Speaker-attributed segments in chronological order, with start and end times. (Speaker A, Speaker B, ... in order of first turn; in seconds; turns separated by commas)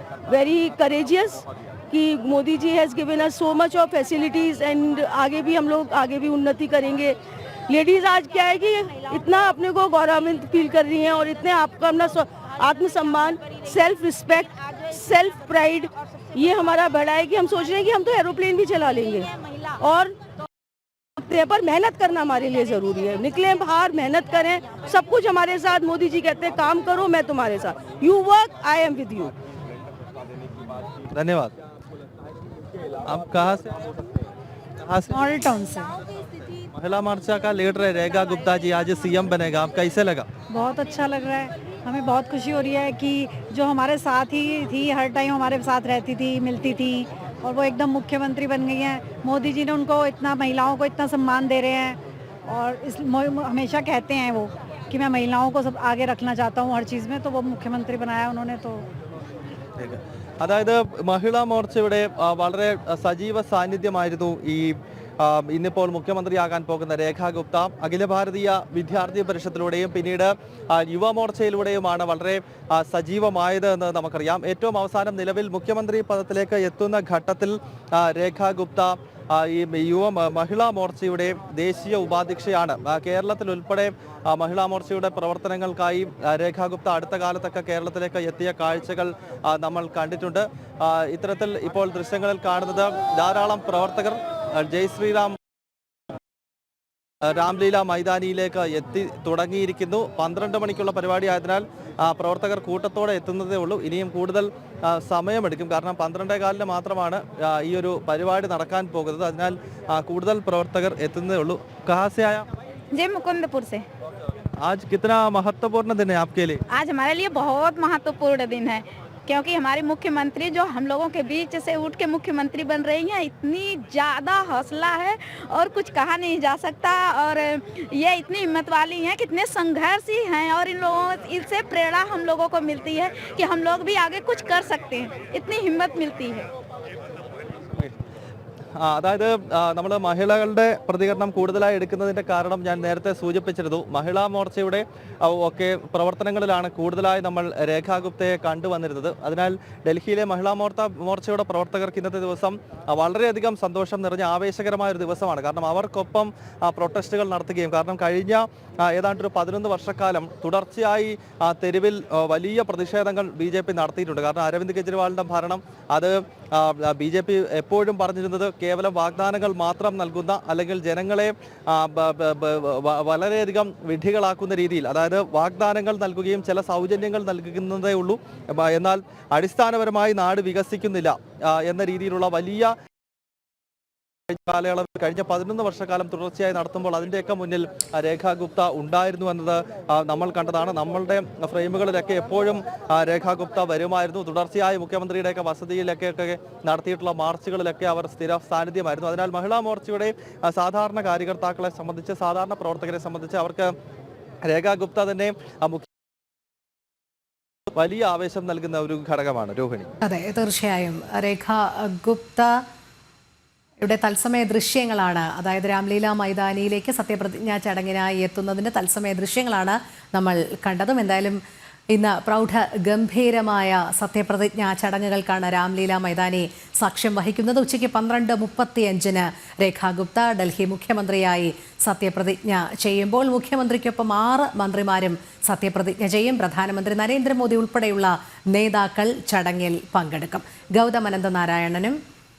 Speaker A: 0.3-20.1, Speaker A: 21.2-29.3, Speaker B: 31.1-31.5, Speaker B: 33.0-33.8, Speaker B: 34.8-35.1, Speaker C: 35.1-36.0, Speaker B: 36.7-40.3, Speaker C: 40.5-58.9, Speaker B: 59.8-95.4, Speaker B: 97.3-112.5, Speaker D: 112.9-113.8, Speaker B: 114.6-116.6, Speaker D: 116.7-136.5, Speaker B: 138.8-182.7, Speaker B: 184.3-203.7, Speaker B: 204.5-205.9, Speaker B: 207.8-209.9, Speaker E: 210.0-212.6, Speaker E: 213.8-221.4, Speaker E: 221.9-242.0